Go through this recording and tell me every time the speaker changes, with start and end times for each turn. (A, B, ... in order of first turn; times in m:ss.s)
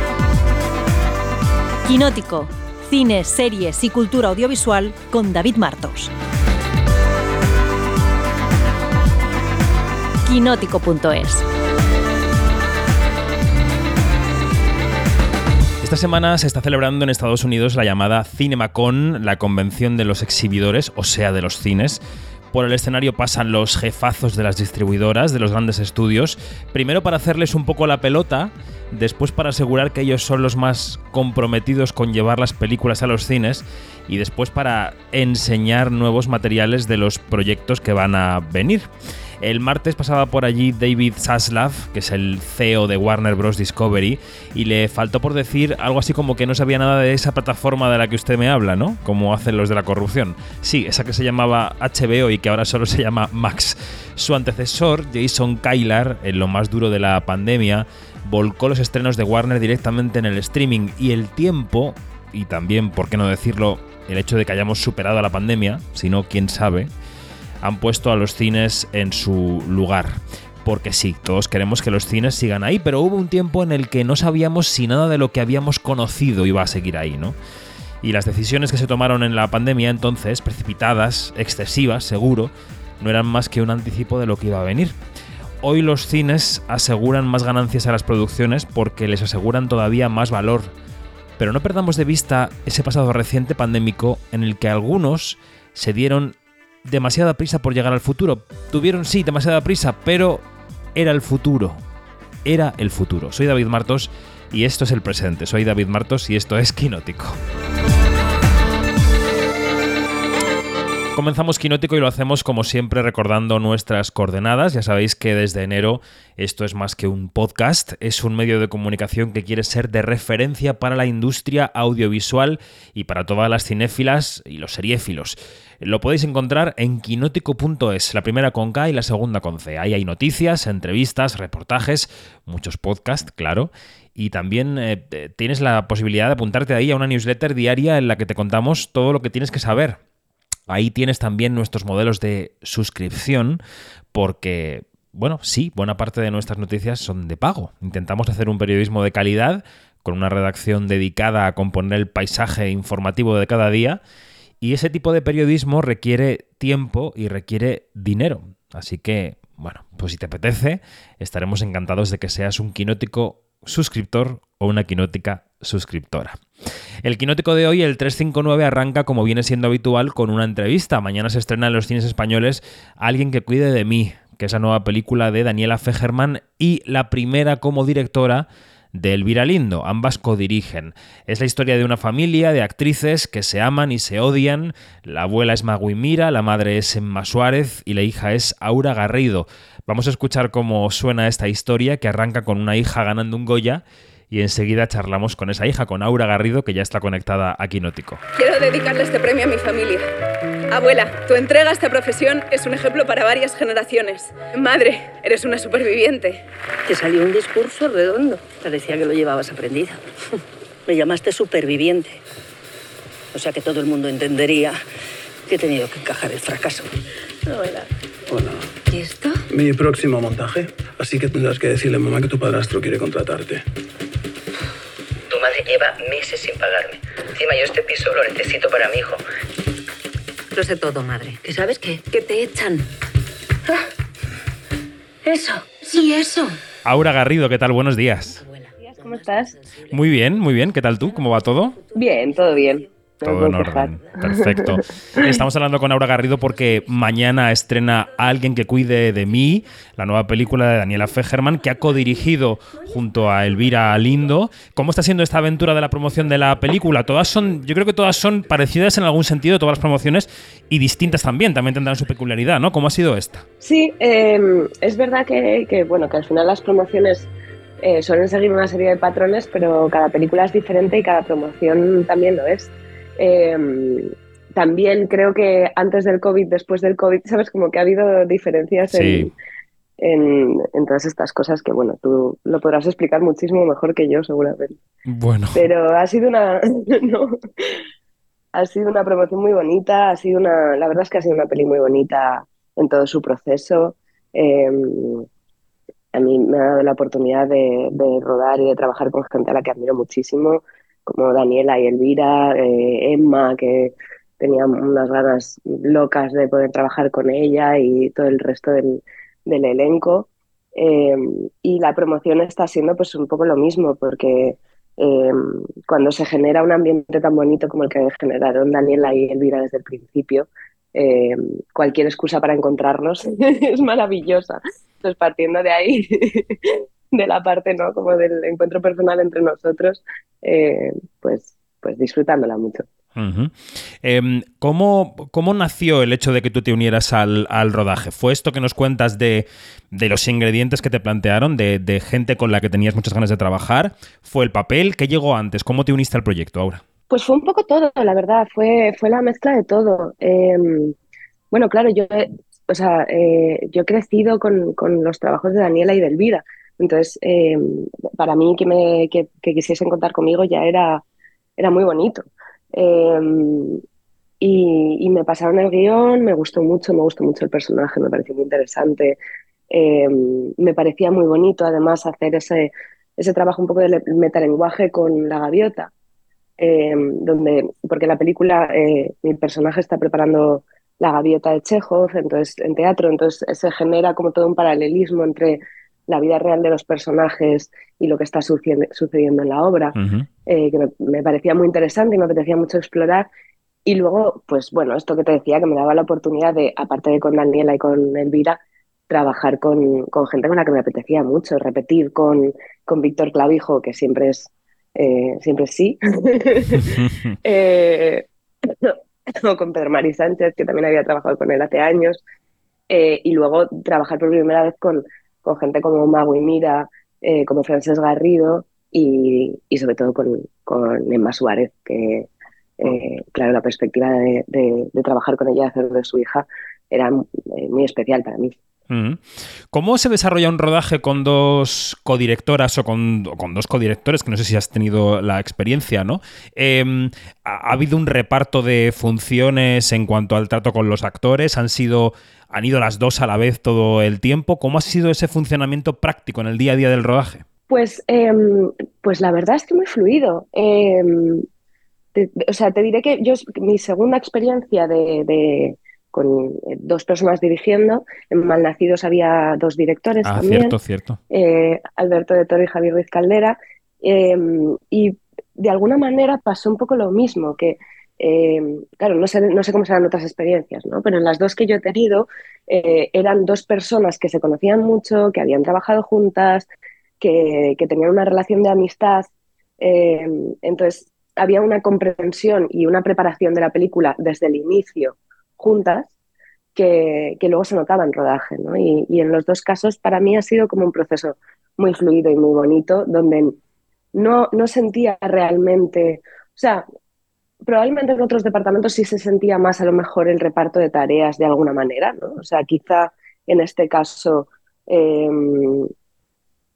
0:01.8-0:06.1 A
0:10.2-0:11.4 A
0:15.8-0:38.9 B
0:39.4-1:06.9 B
1:07.6-1:17.4 B
1:18.0-1:25.0 B
1:25.6-1:30.7 B
1:31.4-1:41.8 B
1:42.4-1:47.4 B
1:51.1-2:20.0 B
2:20.7-2:23.6 B
2:24.1-2:34.0 B
2:34.6-2:46.4 B
2:47.0-3:18.2 B
3:18.4-3:20.1 C
3:20.7-3:26.4 C
3:26.9-3:30.0 D
3:30.9-3:32.2 D
3:33.3-3:34.8 D
3:35.5-3:36.9 D
3:37.5-3:37.8 D
3:38.3-3:38.7 E
3:39.5-3:43.6 E
3:51.4-3:52.8 D
3:56.8-3:58.4 B
3:58.8-3:59.6 F
3:59.9-4:01.8 B
4:01.9-4:05.3 F
4:03.2-4:23.4 B
4:23.6-4:27.3 F
4:27.8-4:39.3 F
4:38.9-4:39.3 B
4:40.0-4:44.8 F
4:45.1-4:45.6 B
4:45.5-4:47.4 F
4:48.5-4:55.3 F
4:56.1-5:32.8 F
5:33.2-5:46.8 B
5:47.1-5:51.0 F
5:51.5-6:01.0 F
6:01.6-6:03.8 F
6:04.4-6:09.2 F
6:09.7-6:15.9 F
6:16.6-6:30.0 F
6:30.0-6:30.3 B
6:30.5-6:33.3 F
6:33.8-6:52.2 F
6:46.8-6:47.4 B
6:52.9-7:02.3 F
7:02.8-7:08.5 F
7:08.9-7:27.4 B
7:27.7-7:31.5 F
7:32.2-7:40.8 F
7:40.2-7:41.2 B
7:41.3-7:56.7 F
7:57.2-8:06.1 F
8:06.8-8:13.6 F
8:14.1-8:16.8 F
8:17.6-8:25.9 F